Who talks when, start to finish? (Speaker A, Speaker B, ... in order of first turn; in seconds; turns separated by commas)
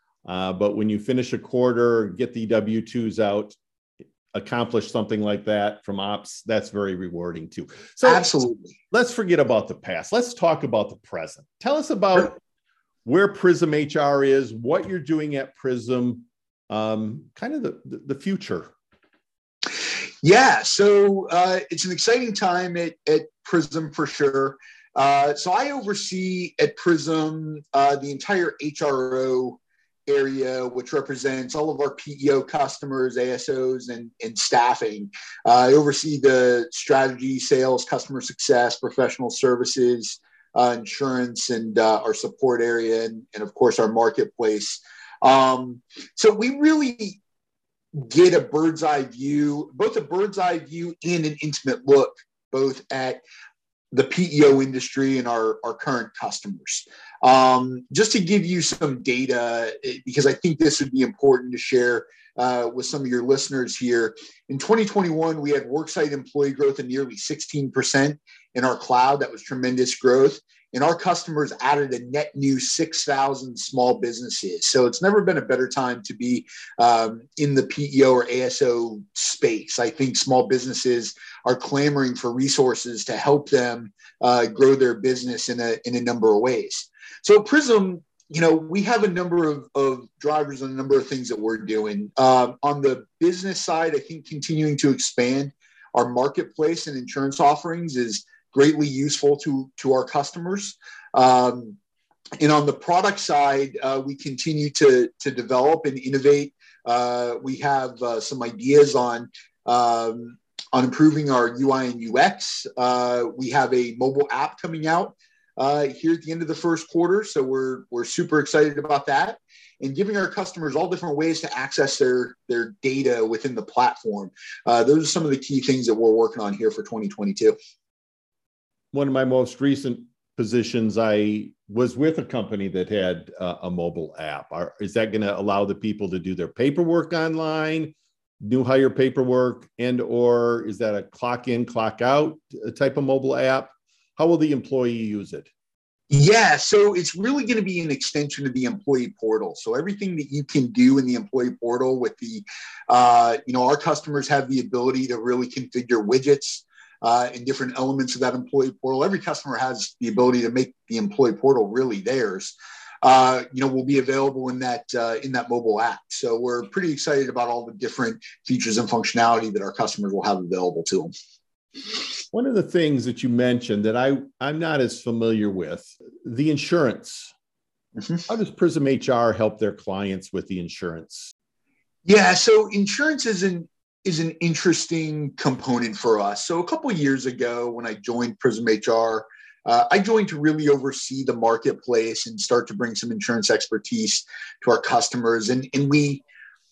Speaker A: 0.3-3.6, Speaker A: 4.3-8.3, Speaker B: 8.0-8.8, Speaker A: 8.9-12.4, Speaker A: 13.1-18.7, Speaker B: 20.2-47.2, Speaker B: 48.0-53.2, Speaker B: 53.9-101.8, Speaker B: 102.4-127.6, Speaker A: 128.9-145.5, Speaker B: 146.1-171.1, Speaker A: 172.3-177.3, Speaker A: 178.3-181.3, Speaker B: 182.1-196.2